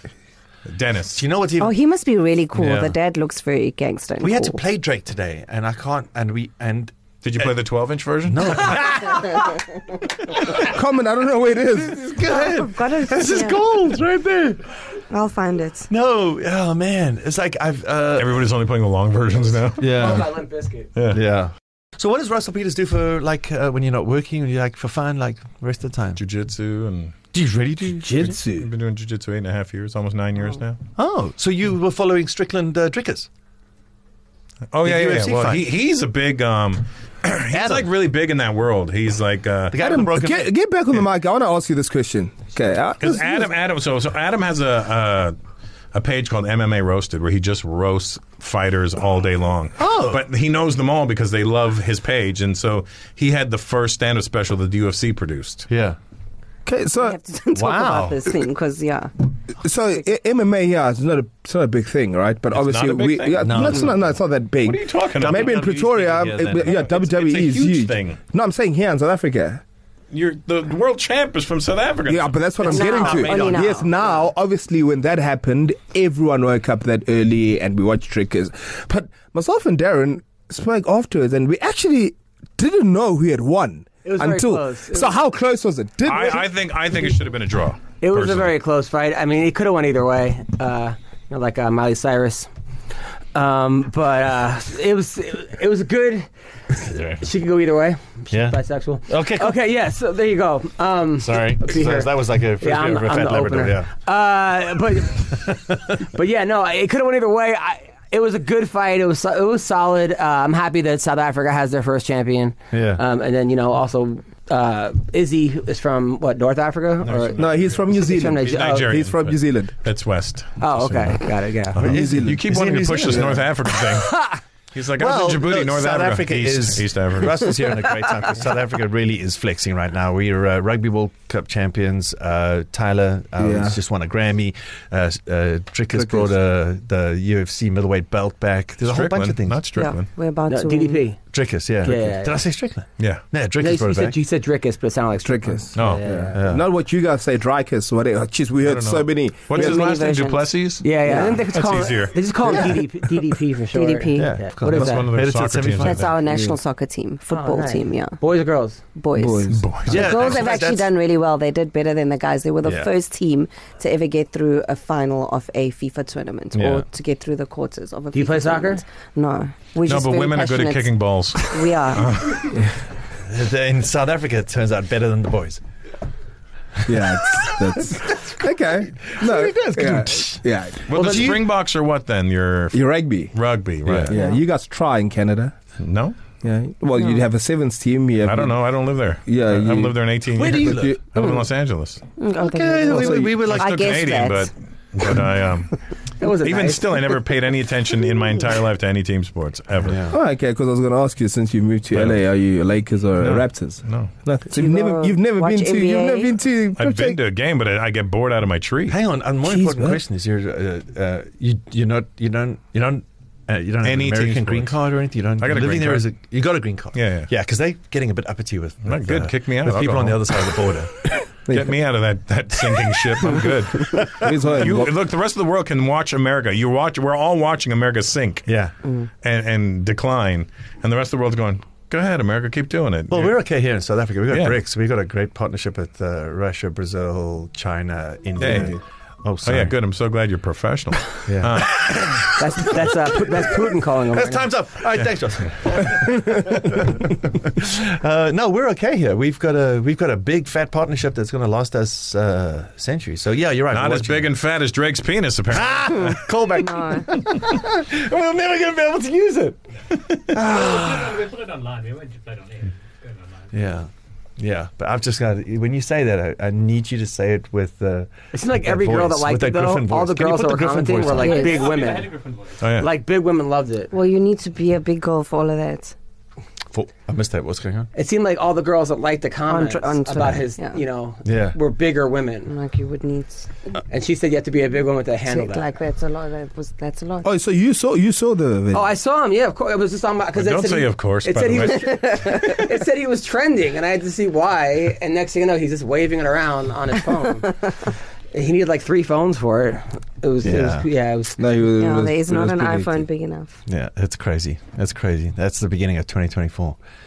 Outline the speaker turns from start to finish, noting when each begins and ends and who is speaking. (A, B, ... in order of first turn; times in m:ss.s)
0:00.6-0:01.2 A
0:01.2-0:01.7 B
0:01.6-0:04.6 C
0:02.6-0:02.9 B
0:04.2-0:07.5 B
0:07.2-0:09.2 A
0:08.3-0:10.7 B
0:10.6-0:12.2 D
0:11.8-0:14.6 B
0:12.2-0:13.8 C
0:15.1-0:15.9 C
0:15.9-0:18.5 B
0:18.1-0:20.2 A
0:19.8-0:20.4 B
0:19.9-0:20.9 E
0:21.0-0:21.2 A
0:21.1-0:26.2 B
0:26.2-0:27.2 A
0:27.3-0:28.4 B
0:28.0-0:28.7 D
0:28.5-0:30.8 A
0:31.0-0:33.3 B
0:34.7-0:39.8 A
0:34.8-0:35.7 B
0:37.5-0:37.9 B
0:39.7-0:40.5 B
0:39.8-0:43.5 D
0:43.0-0:45.4 A
0:45.9-0:55.7 A
0:49.8-0:50.2 B
0:55.7-0:56.0 B
0:56.6-0:57.2 D
0:57.0-0:59.1 C
0:57.5-0:58.2 B
0:59.6-1:09.6 D
1:02.5-1:04.1 A
1:03.4-1:03.9 B
1:04.6-1:05.6 A
1:05.2-1:06.9 B
1:06.6-1:08.2 A
1:10.1-1:12.4 A
1:12.1-1:26.5 D
1:12.6-1:13.9 C
1:12.8-1:13.6 B
1:13.1-1:13.6 E
1:24.0-1:25.1 E
1:26.1-1:28.5 A
1:28.0-1:32.5 E
1:33.3-1:36.3 E
1:36.8-1:37.2 B
1:37.2-1:45.5 E
1:38.3-1:39.6 B
1:41.2-1:43.9 B
1:45.1-1:45.9 B
1:46.1-1:58.9 E
1:52.7-1:53.0 B
1:57.0-1:57.8 A
1:57.4-1:59.7 D
1:58.4-2:01.2 A
2:00.6-2:01.8 E
2:01.7-2:04.1 A
2:01.8-2:02.4 D
2:01.8-2:03.4 B
2:03.0-2:03.4 D
2:03.9-2:04.4 E
2:04.7-2:07.6 A
2:05.0-2:19.6 B
2:13.4-2:13.8 D
2:15.9-2:16.4 D
2:18.8-2:20.1 A
2:19.7-2:21.0 C
2:20.5-2:21.2 E
2:21.3-2:24.2 B
2:21.8-2:22.4 E
2:23.0-2:23.2 A
2:23.6-2:26.4 E
2:25.2-2:29.8 D
2:25.7-2:26.0 A
2:26.3-2:26.6 B
2:28.6-2:31.0 A
2:29.5-2:31.4 C
2:30.8-2:35.1 E
2:31.5-2:32.3 A
2:33.7-2:34.4 C
2:34.2-2:36.1 B
2:34.7-2:36.1 A
2:35.8-2:38.2 C
2:36.3-2:36.6 D
2:37.3-2:38.8 E
2:38.9-2:52.2 C
2:39.2-2:39.7 D
2:39.5-2:40.4 A
2:39.8-2:40.9 B
2:42.6-2:42.9 B
2:46.5-2:46.8 B
2:48.1-2:48.8 E
2:49.8-2:52.7 A
2:53.1-2:55.6 B
2:56.8-3:00.8 D
2:56.9-3:01.4 B
3:00.9-3:04.2 A
3:02.7-3:03.3 D
3:03.8-3:04.1 B
3:04.0-3:05.5 D
3:05.8-3:06.2 A
3:06.4-3:08.6 D
3:08.2-3:12.0 A
3:09.2-3:10.0 D
3:10.3-3:11.0 B
3:10.6-3:11.3 D
3:12.2-3:14.5 C
3:12.4-3:14.0 B
3:12.8-3:13.4 D
3:13.4-3:15.8 A
3:16.2-3:17.2 E
3:16.4-3:20.0 A
3:19.8-3:20.2 B
3:20.1-3:27.2 D
3:21.9-3:22.2 A
3:23.2-3:24.1 A
3:24.5-3:26.3 C
3:26.8-3:29.0 A
3:28.9-3:41.1 B
3:29.4-3:30.0 D
3:33.8-3:34.7 A
3:35.4-3:36.0 A
3:36.9-3:37.3 A
3:38.9-3:40.4 A
3:41.4-3:41.7 D
3:41.5-3:48.5 A
3:43.9-3:44.3 B
3:44.1-3:45.0 D
3:48.5-3:48.7 B
3:49.2-3:53.4 A
3:53.1-3:59.7 B
3:54.3-3:54.6 A
3:58.4-3:58.8 A
3:58.5-3:58.8 D
3:59.4-4:02.3 A
4:01.1-4:14.3 B
4:02.4-4:04.6 E
4:05.0-4:05.5 A
4:13.7-4:16.4 A
4:15.5-4:21.3 B
4:16.5-4:17.1 C
4:20.3-4:23.9 F
4:23.5-4:31.4 B
4:28.3-4:32.2 E
4:31.2-4:31.7 C
4:31.4-4:32.7 F
4:32.6-4:32.9 A
4:32.8-4:33.9 E
4:33.9-4:35.9 C
4:36.7-4:37.9 B
4:37.9-4:42.5 E
4:39.5-4:40.8 C
4:41.2-4:41.6 B
4:42.5-4:43.5 C
4:43.9-4:45.7 E
4:45.3-4:47.3 C
4:47.2-4:48.8 D
4:48.7-5:01.4 E
4:50.3-4:52.2 A
4:52.0-4:52.4 C
5:00.4-5:00.9 B
5:01.4-5:03.1 D
5:01.8-5:03.6 C
5:03.7-5:06.8 B